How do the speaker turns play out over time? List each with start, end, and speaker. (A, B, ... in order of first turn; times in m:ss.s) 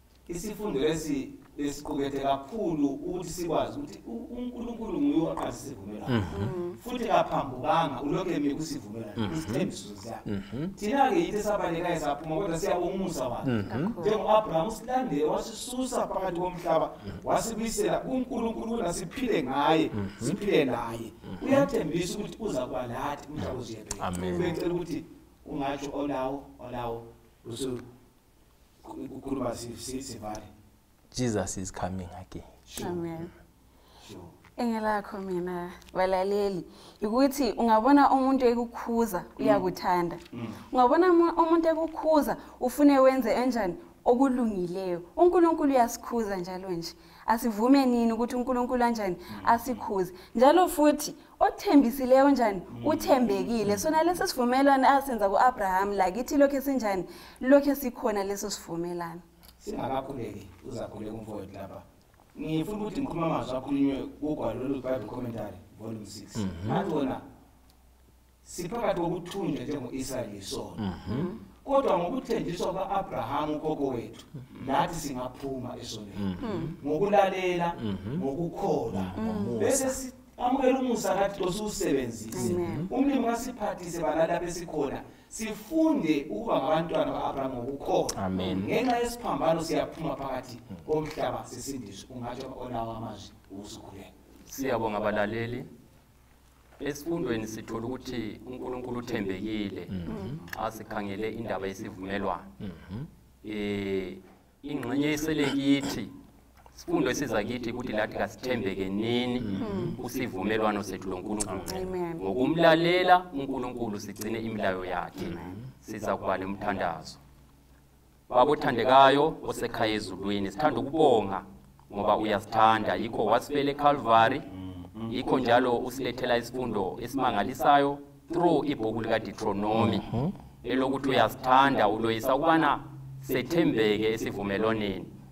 0:00.3-0:27.8 A
0:06.1-0:06.5 B
0:06.3-0:06.8 C
0:09.2-0:09.7 B
0:10.2-0:10.7 B
0:13.4-0:14.0 B
0:13.6-0:14.2 C
0:19.9-0:20.4 B
0:21.3-0:21.7 B
0:23.4-0:24.6 B
0:24.1-0:24.6 C
0:28.8-0:30.5 A
0:31.1-0:32.5 B
0:32.6-0:33.0 A
0:32.8-0:33.3 C
0:34.0-0:34.3 A
0:34.6-0:59.2 C
0:39.4-0:39.6 A
0:40.3-0:40.6 A
0:49.3-0:49.8 A
0:52.7-0:53.9 A
0:59.6-1:07.2 A
1:06.4-1:06.9 B
1:06.7-1:07.0 C
1:08.4-1:10.8 A
1:10.8-1:11.3 B
1:11.1-1:11.4 C
1:11.6-1:34.1 A
1:16.2-1:16.7 B
1:16.4-1:16.8 C
1:17.8-1:18.2 B
1:18.9-1:20.0 B
1:19.1-1:19.6 C
1:22.3-1:22.9 C
1:22.3-1:22.9 B
1:28.2-1:28.7 B
1:28.4-1:28.7 C
1:34.4-1:35.7 D
1:36.8-1:42.5 D
1:39.9-1:40.4 B
1:40.1-1:40.4 C
1:42.6-1:43.1 B
1:43.4-1:46.1 D
1:46.7-1:57.2 D
1:49.4-1:49.9 B
1:49.6-1:50.0 C
1:51.6-1:52.2 C
1:55.2-1:55.5 C
1:58.3-2:04.5 D
2:04.5-2:05.1 A
2:05.1-2:15.1 D
2:09.8-2:10.3 B